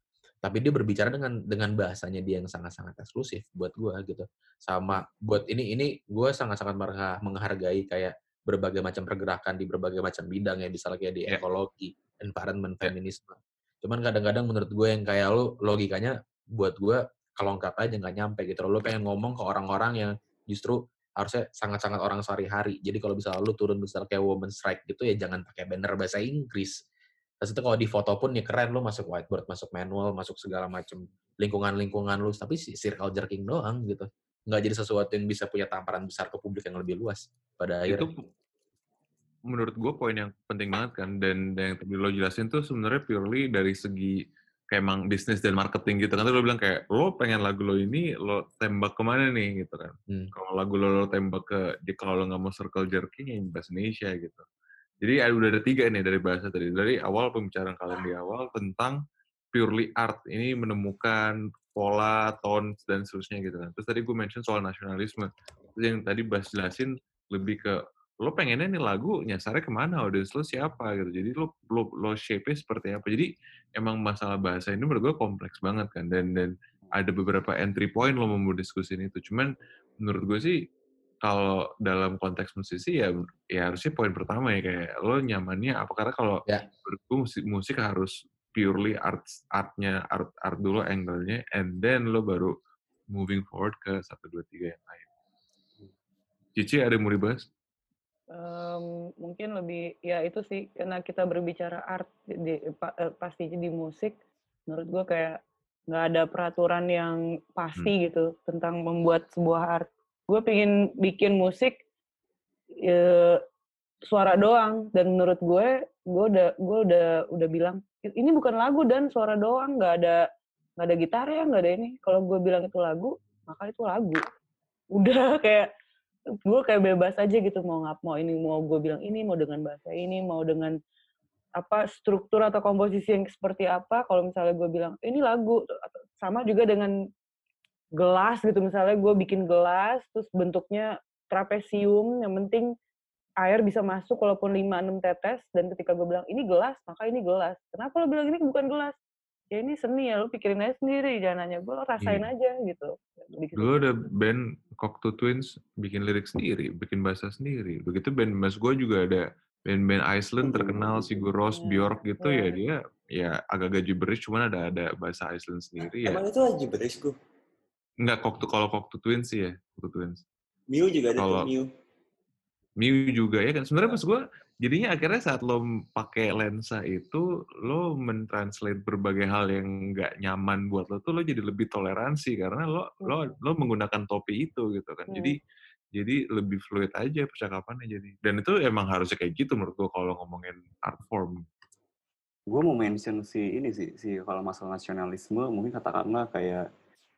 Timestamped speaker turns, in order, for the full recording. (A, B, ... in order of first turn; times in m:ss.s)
0:00.4-0:26.8 A
0:27.4-0:38.1 A
0:37.9-0:38.3 B
0:39.5-0:44.2 B
0:44.7-0:54.4 B
0:55.0-0:59.0 B
0:59.5-1:20.6 B
1:21.2-1:32.5 B
1:33.1-1:35.1 B
1:36.6-1:37.5 B
1:38.3-1:44.2 C
1:44.7-1:45.4 C
1:45.9-1:51.8 C
1:52.8-1:53.4 C
1:54.1-2:00.2 C
2:00.8-2:04.2 C
2:05.0-2:05.7 C
2:06.4-2:10.7 C
2:11.6-2:16.9 C
2:18.0-2:22.7 C
2:23.4-2:29.0 C
2:29.5-2:34.1 C
2:33.6-2:46.2 B
2:40.4-2:41.3 D
2:41.6-2:42.6 C
2:46.0-2:47.1 E
2:48.0-2:50.2 B
2:50.7-2:51.7 E
2:51.2-2:51.5 B
2:52.8-3:05.4 B
3:05.9-3:11.4 B
3:12.5-3:16.6 D